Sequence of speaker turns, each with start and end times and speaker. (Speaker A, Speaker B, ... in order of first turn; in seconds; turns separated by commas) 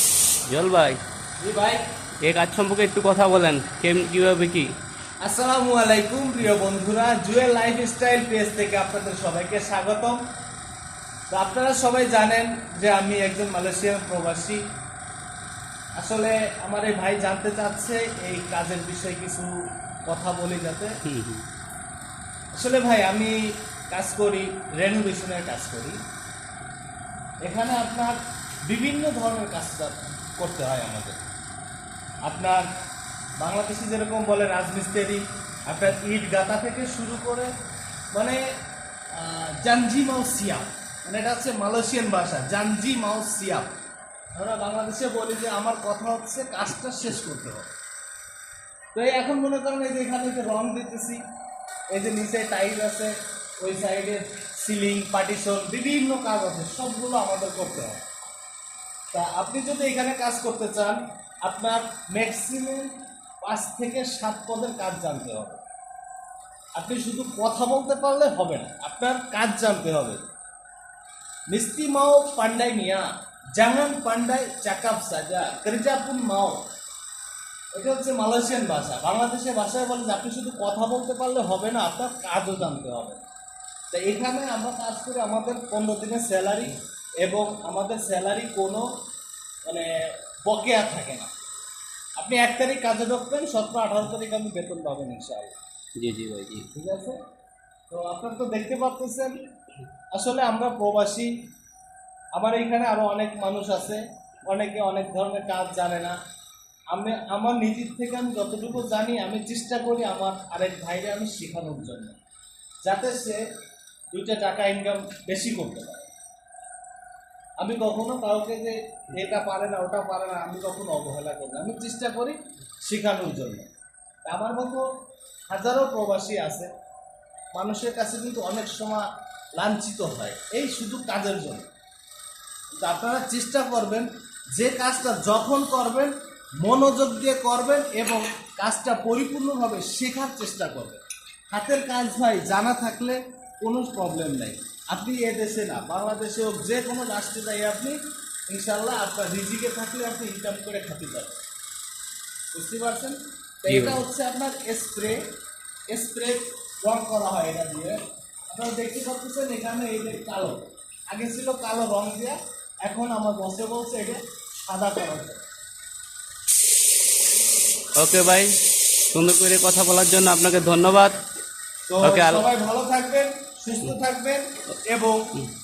Speaker A: 0.5-1.0, Speaker B: 1.4-1.8, Speaker A: 2.2-4.7, Speaker B: 5.2-10.2, Speaker B: 11.3-14.6, Speaker B: 16.0-21.0, Speaker A: 21.0-21.4, Speaker B: 22.6-26.0, Speaker B: 27.4-31.2, Speaker B: 32.2-32.7, Speaker B: 33.4-37.5, Speaker B: 38.1-38.4, Speaker B: 39.1-43.7, Speaker B: 44.3-47.7, Speaker B: 48.9-51.2, Speaker B: 51.9-58.0, Speaker B: 59.1-65.6, Speaker B: 66.8-70.2, Speaker B: 71.5-76.6, Speaker B: 77.7-83.2, Speaker B: 83.9-88.9, Speaker B: 89.7-91.3, Speaker B: 92.2-95.5, Speaker A: 96.0-96.7, Speaker B: 96.7-97.2, Speaker B: 97.9-99.4, Speaker B: 100.1-101.3, Speaker B: 102.3-106.2, Speaker B: 106.9-112.2, Speaker B: 112.8-113.4, Speaker B: 114.1-116.1, Speaker B: 117.6-123.7, Speaker B: 124.2-124.9, Speaker B: 125.5-126.7, Speaker B: 127.5-131.7, Speaker B: 132.8-148.0, Speaker B: 148.5-151.4, Speaker B: 152.5-155.3, Speaker A: 153.7-154.0, Speaker B: 155.9-158.0, Speaker B: 158.5-165.4, Speaker A: 168.0-168.6, Speaker A: 169.1-171.2, Speaker B: 171.9-175.4, Speaker A: 172.0-172.4